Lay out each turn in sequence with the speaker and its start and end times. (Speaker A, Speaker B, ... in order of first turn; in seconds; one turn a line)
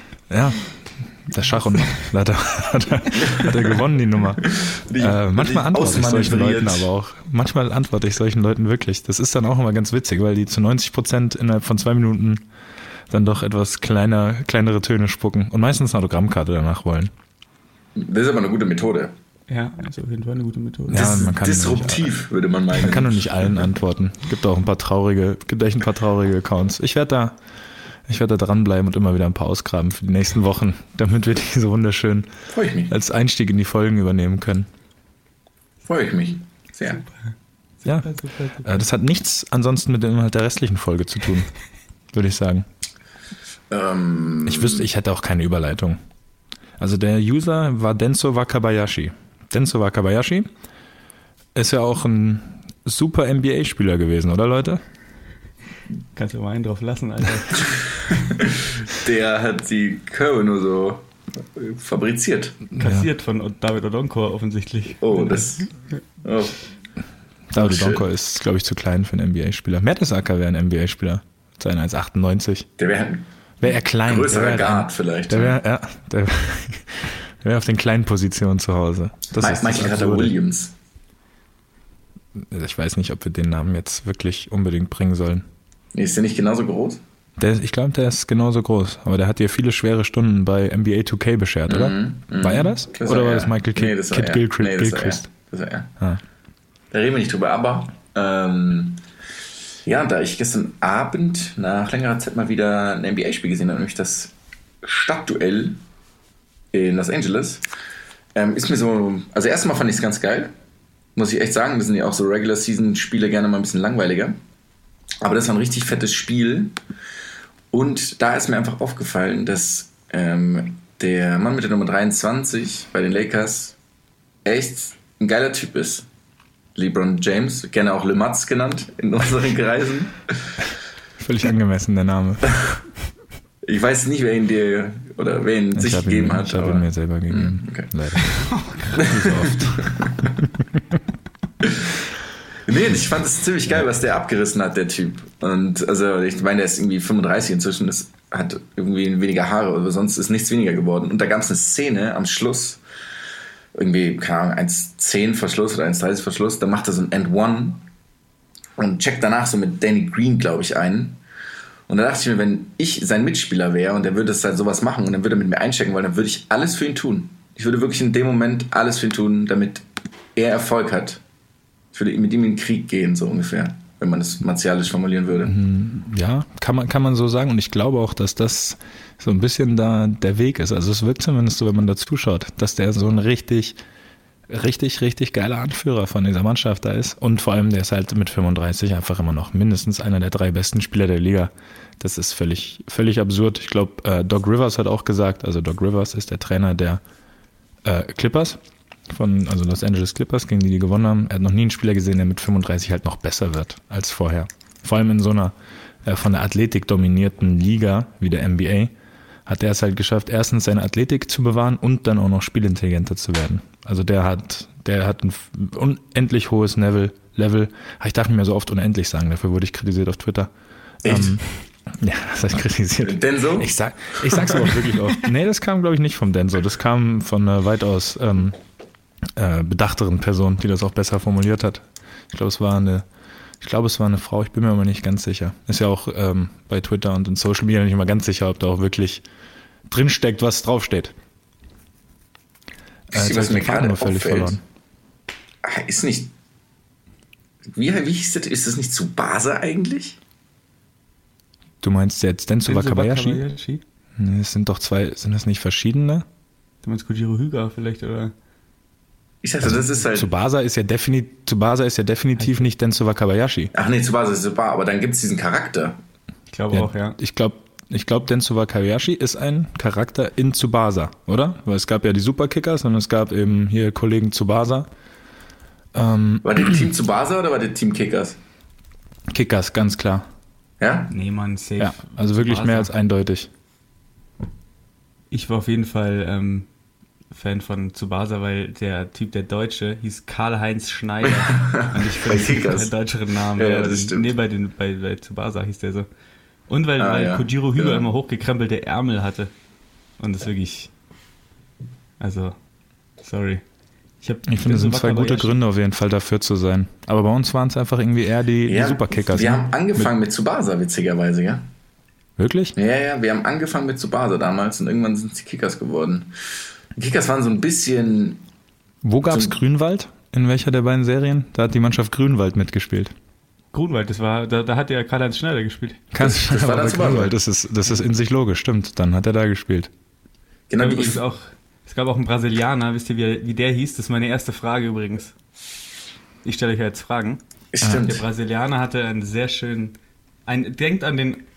Speaker A: 0.3-12.4
Speaker B: 3.2-3.8
Speaker B: 4.4-6.9
Speaker A: 13.1-17.1
Speaker B: 17.9-19.1
Speaker C: 19.5-21.2
Speaker A: 20.9-22.1
Speaker B: 20.9-23.6
Speaker A: 22.7-27.4
Speaker A: 28.1-32.3
Speaker B: 32.5-33.0
Speaker A: 32.9-34.7
Speaker B: 35.9-37.0
Speaker C: 37.8-38.8
Speaker A: 37.9-38.1
Speaker A: 38.6-41.5
Speaker A: 42.1-42.7
Speaker B: 43.7-44.9
Speaker A: 44.5-46.0
Speaker A: 46.8-50.5
Speaker A: 51.5-54.8
Speaker C: 56.2-58.2
Speaker B: 58.2-62.6
Speaker A: 62.7-63.1
Speaker C: 62.8-65.7
Speaker B: 65.0-65.7
Speaker B: 66.2-66.6
Speaker A: 67.5-72.7
Speaker B: 67.5-68.1
Speaker B: 72.8-75.6
Speaker A: 73.6-80.3
Speaker B: 79.4-80.7
Speaker A: 82.3-85.5
Speaker B: 85.9-87.0
Speaker A: 87.4-95.3
Speaker B: 91.7-95.9
Speaker B: 96.9-99.0
Speaker B: 99.8-104.3
Speaker B: 104.8-105.8
Speaker B: 106.7-107.6
Speaker B: 108.3-110.5
Speaker B: 111.2-114.4
Speaker B: 115.2-116.8
Speaker B: 117.7-123.8
Speaker B: 124.5-126.1
Speaker B: 126.8-130.6
Speaker A: 131.2-132.6
Speaker B: 133.6-137.9
Speaker A: 135.8-139.9
Speaker C: 138.2-139.0
Speaker B: 139.0-140.3
Speaker B: 141.6-141.9
Speaker B: 142.7-152.8
Speaker B: 153.8-157.8
Speaker B: 158.8-161.2
Speaker B: 161.9-169.8
Speaker B: 170.4-171.2
Speaker B: 171.9-175.6
Speaker A: 175.4-183.8
Speaker A: 184.5-197.0
Speaker A: 197.8-205.5
Speaker A: 206.1-208.9
Speaker A: 209.5-220.5
Speaker A: 221.0-228.6
Speaker B: 221.1-221.4
Speaker B: 223.0-224.8
Speaker A: 229.3-233.0
Speaker A: 233.6-239.2
Speaker A: 239.9-241.1
Speaker A: 243.1-244.6
Speaker B: 243.1-244.6
Speaker B: 245.6-246.3
Speaker B: 247.7-250.2
Speaker A: 251.8-253.4
Speaker C: 252.7-253.8
Speaker A: 254.2-256.2
Speaker C: 256.8-258.3
Speaker B: 259.4-260.3
Speaker A: 259.6-263.7
Speaker C: 262.4-262.6
Speaker B: 263.7-266.0
Speaker C: 266.5-267.2
Speaker A: 266.7-274.9
Speaker A: 275.9-276.9
Speaker B: 276.4-278.4
Speaker A: 279.3-280.3
Speaker B: 280.8-281.1
Speaker C: 281.1-282.9
Speaker A: 281.8-283.5
Speaker C: 285.3-286.7
Speaker C: 287.3-296.1
Speaker B: 291.5-292.9
Speaker B: 293.6-294.3
Speaker C: 296.7-299.5
Speaker B: 297.0-298.1
Speaker C: 300.2-300.9
Speaker C: 302.2-302.6
Speaker C: 303.2-303.6
Speaker C: 304.2-305.6
Speaker A: 304.5-310.1
Speaker B: 308.7-311.6
Speaker A: 312.4-312.7
Speaker B: 312.8-316.3
Speaker B: 317.0-318.4
Speaker A: 319.0-323.1
Speaker B: 319.3-319.6
Speaker C: 323.7-326.0
Speaker A: 326.1-329.9
Speaker B: 326.2-327.4
Speaker B: 330.7-331.2
Speaker C: 330.8-335.4
Speaker C: 336.4-337.4
Speaker B: 337.7-338.3
Speaker A: 337.8-338.1
Speaker C: 337.9-339.9
Speaker C: 340.5-341.4